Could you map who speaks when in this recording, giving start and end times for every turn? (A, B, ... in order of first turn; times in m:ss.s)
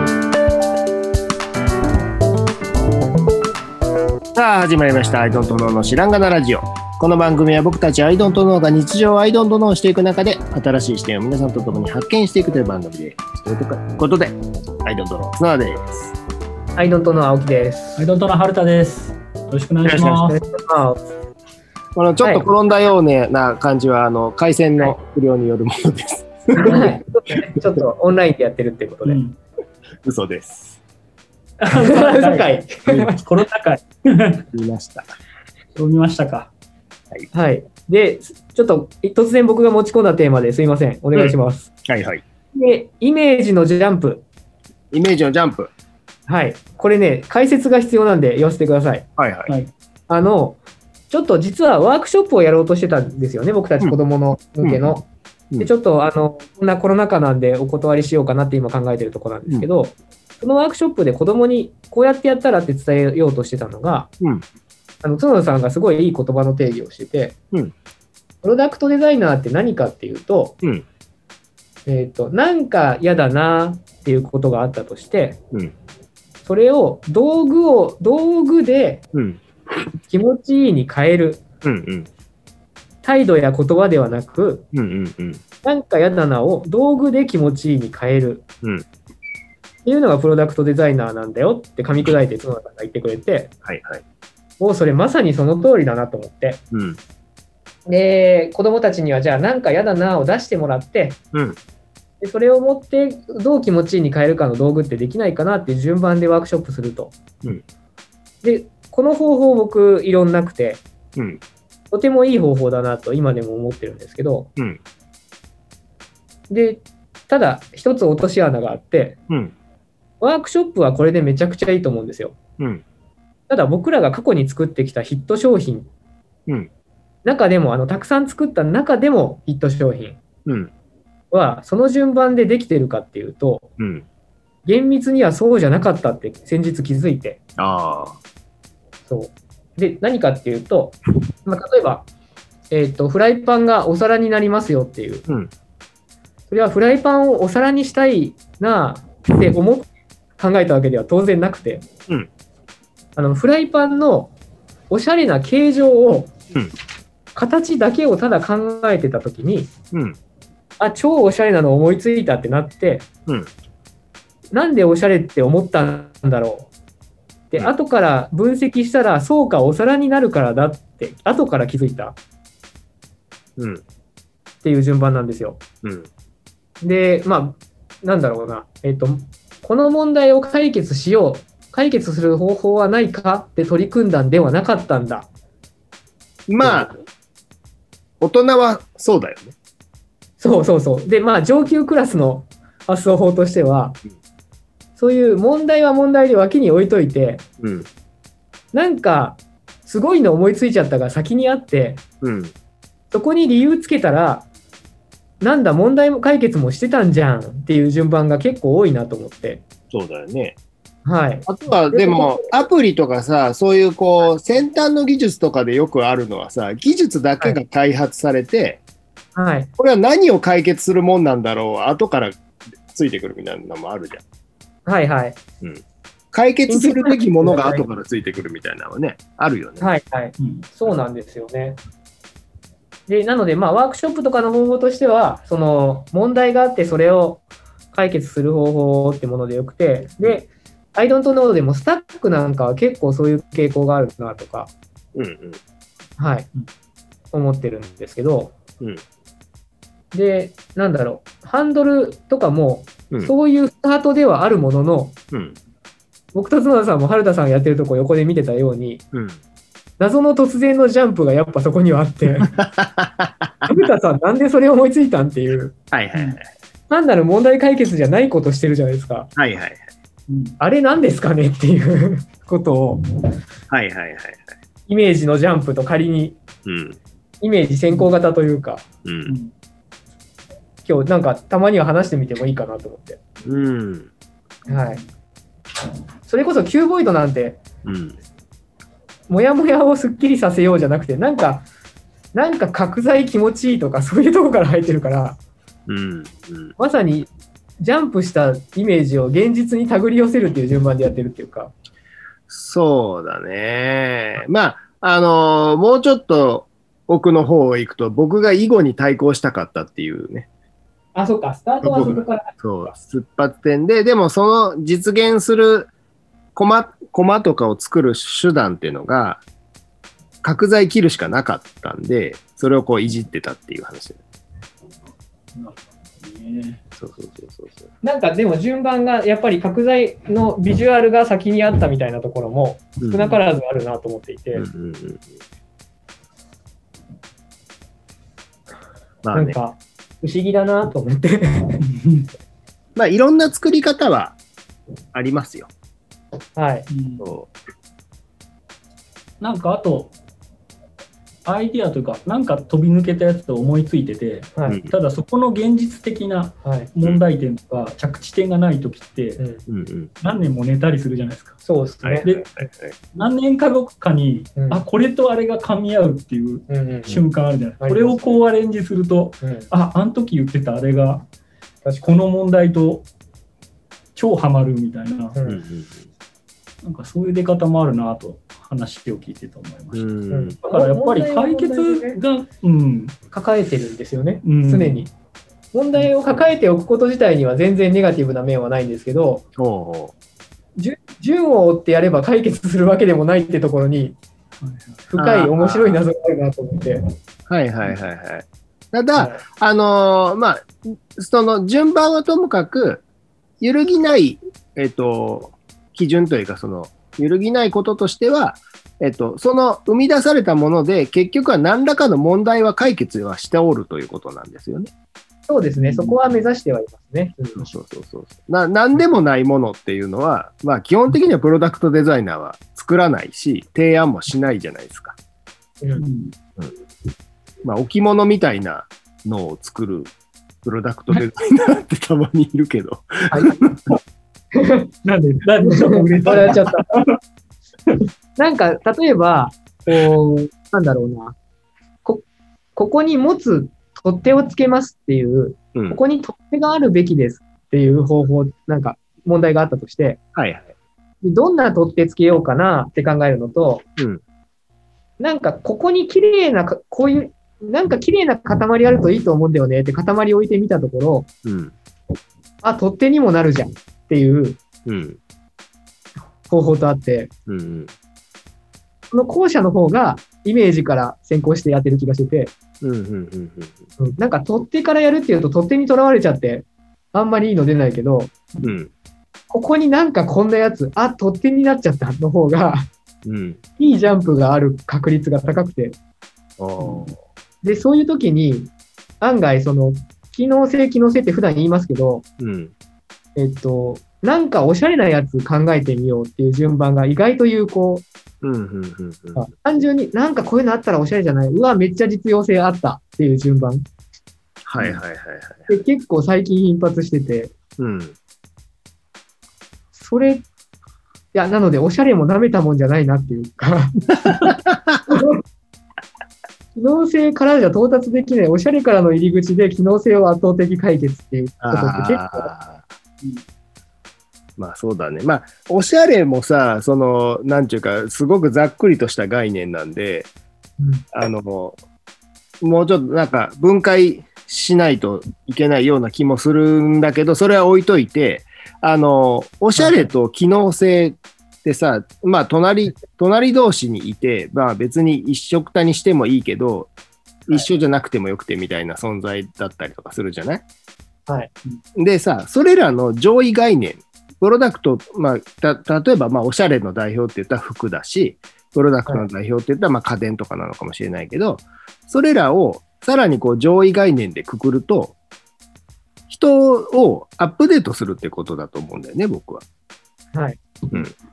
0:04.3-0:16.1 A
0:16.8-0:18.0 B
0:18.0-0:20.4 C
0:19.8-0:20.2 A
0:20.2-0:21.0 B
0:21.9-0:26.9 A
0:22.2-0:22.5 B
0:26.5-0:29.2 B
0:29.0-0:29.4 C
0:30.0-0:30.8 A
0:31.6-0:33.2 B
0:31.6-0:32.5 C
0:32.9-0:33.2 A
0:33.2-0:34.4 C
0:34.5-0:35.1 A
0:35.8-0:36.5 C
0:37.3-0:41.7 B
0:41.8-0:42.2 A
0:42.5-0:44.2 B
0:44.9-0:45.7 A
0:46.3-0:49.1 B
0:49.2-0:49.5 A
0:50.1-0:50.6 B
0:51.1-0:55.1 B
0:55.6-1:04.1 B
1:05.0-1:07.4 B
1:08.4-1:10.5 B
1:11.8-1:15.4 B
1:16.4-1:19.0 B
1:19.1-1:19.4 A
1:20.1-1:21.4 B
1:21.6-1:22.1 A
1:23.0-1:24.6 B
1:24.7-1:25.4 A
1:25.6-1:28.4 B
1:29.8-1:33.5 B
1:33.6-1:34.0 A
1:34.6-1:36.6 B
1:36.7-1:37.0 A
1:37.8-1:41.2 B
1:41.3-1:41.6 A
1:42.2-1:47.2 B
1:48.4-1:50.8 B
1:51.2-1:51.4 A
1:51.9-1:54.5 B
1:56.5-1:59.2 B
1:59.3-1:59.5 A
2:00.2-2:02.4 B
2:02.6-2:02.8 A
2:03.5-2:05.9 B
2:07.2-2:10.2 B
2:10.4-2:10.7 A
2:11.3-2:13.7 B
2:13.8-2:14.0 A
2:14.6-2:17.4 B
2:17.6-2:18.2 A
2:19.1-2:22.1 B
2:22.7-2:25.2 B
2:26.5-2:31.8 B
2:33.2-2:34.3 B
2:34.9-2:36.3 B
2:37.3-2:39.7 B
2:39.9-2:40.2 A
2:40.8-2:43.1 B
2:44.5-2:46.7 B
2:47.5-2:52.2 B
2:53.6-2:53.8 A
2:54.6-2:55.6 B
2:55.8-2:56.1 A
2:56.8-3:05.3 B
3:06.5-3:06.9 A
3:08.2-3:09.5 A
3:10.4-3:14.0 B
3:15.0-3:17.4 B
3:17.6-3:17.9 A
3:18.7-3:22.0 B
3:22.2-3:22.5 A
3:23.1-3:24.4 B
3:25.4-3:29.6 B
3:29.9-3:30.6 A
3:31.0-3:32.7 B
3:31.5-3:38.8 A
3:39.3-3:39.7 B
3:39.8-3:42.4 A
3:42.9-3:44.2 A
3:44.8-3:45.4 B
3:45.6-3:49.8 A
3:46.7-3:47.8 B
3:49.8-3:51.8 B
3:50.4-3:50.9 C
3:53.1-4:04.7 B
4:05.1-4:05.6 A
4:06.2-4:06.5 B
4:07.3-4:08.5 B
4:10.1-4:15.2 B
4:16.3-4:19.0 B
4:19.1-4:19.4 A
4:20.0-4:22.6 B
4:22.5-4:23.7 A
4:23.6-4:25.8 B
4:25.9-4:26.5 A
4:26.1-4:26.4 C
4:26.9-4:29.3 B
4:29.4-4:29.9 A
4:30.3-4:30.6 C
4:30.6-4:33.3 B
4:33.7-4:34.5 A
4:34.9-4:36.4 B
4:36.6-4:37.0 A
4:37.4-4:38.8 B
4:39.0-4:39.4 A
4:39.2-4:39.5 C
4:40.8-4:43.2 B
4:43.4-4:44.1 A
4:44.6-4:45.0 C
4:44.6-4:45.0 B
4:46.2-4:47.6 B
4:47.8-4:48.2 A
4:49.3-4:51.6 B
4:52.3-4:55.4 B
4:55.9-4:56.7 A
4:56.8-5:01.7 B
5:02.5-5:10.5 A
5:11.1-5:12.5 B
5:11.8-5:15.9 A
5:16.6-5:19.4 A
5:20.4-5:24.2 A
5:25.5-5:26.8 C
5:27.0-5:27.9 A
5:28.0-5:34.7 B
5:33.0-5:33.4 A
5:34.5-5:35.3 A
5:39.2-5:39.6 A
5:39.3-5:41.8 B
5:41.8-5:42.3 C
5:43.0-5:44.4 A
5:45.1-5:45.7 A
5:46.6-5:46.9 B
5:46.9-5:47.3 C
5:47.2-5:47.5 A
5:49.4-5:50.1 C
5:51.4-5:59.4 C
5:54.7-5:54.9 A
5:56.6-5:56.9 B
5:59.7-6:00.1 A
6:00.2-6:01.6 C
6:01.6-6:02.3 B
6:02.0-6:02.9 A
6:02.2-6:02.5 C
6:03.1-6:11.2 C
6:04.6-6:04.8 B
6:06.7-6:07.1 B
6:07.8-6:08.3 B
6:09.4-6:09.7 B
6:11.8-6:12.1 B
6:12.0-6:13.1 C
6:14.2-6:15.4 C
6:15.4-6:15.6 B
6:15.4-6:16.0 A
6:16.8-6:20.1 C
6:19.9-6:20.6 A
6:20.3-6:22.2 B
6:20.6-6:23.2 C
6:23.3-6:25.1 B
6:24.4-6:25.0 C
6:25.7-6:29.4 B
6:29.6-6:30.1 A
6:30.8-6:34.2 B
6:34.6-6:35.8 C
6:35.1-6:37.0 B
6:35.2-6:36.0 A
6:37.5-6:43.0 A
6:39.2-6:39.4 B
6:43.6-6:54.9 A
6:55.5-6:57.7 B
6:55.8-6:56.2 C
6:57.6-7:05.2 A
7:06.0-7:06.3 C
7:07.6-7:10.1 A
7:10.6-7:13.5 A
7:13.3-7:13.8 B
7:14.5-7:14.9 B
7:15.0-7:17.2 C
7:15.6-7:16.8 B
7:18.4-7:21.3 B
7:22.8-7:30.2 B
7:25.7-7:26.0 A
7:30.3-7:30.7 A
7:31.2-7:33.8 B
7:35.2-7:41.3 B
7:41.4-7:41.7 A
7:42.6-7:44.6 B
7:44.8-7:45.2 A
7:46.5-7:47.3 B
7:47.5-7:47.9 A
7:49.1-7:52.5 B
7:52.8-7:53.8 A
7:54.0-7:58.3 B
7:58.6-7:58.9 A
7:59.5-8:02.9 B
8:03.2-8:03.6 A
8:03.8-8:06.0 B
8:06.6-8:07.2 A
8:07.6-8:12.2 B
8:12.4-8:12.7 A
8:13.4-8:18.0 B
8:18.4-8:19.4 A
8:19.4-8:23.9 B
8:24.7-8:25.7 A
8:25.7-8:27.5 B
8:27.8-8:28.1 A
8:29.9-8:30.4 B
8:31.3-8:34.3 B
8:34.1-8:35.0 A
8:35.1-8:35.4 B
8:36.7-8:42.5 B
8:41.6-8:42.9 A
8:44.6-8:50.3 A
8:50.8-8:51.0 B
8:51.1-8:51.8 A
8:52.6-9:06.9 A
8:59.8-9:00.1 B
9:07.5-9:10.6 A
9:11.3-9:11.5 B
9:12.0-9:25.2 A
9:26.3-9:29.6 A
9:30.3-9:31.0 B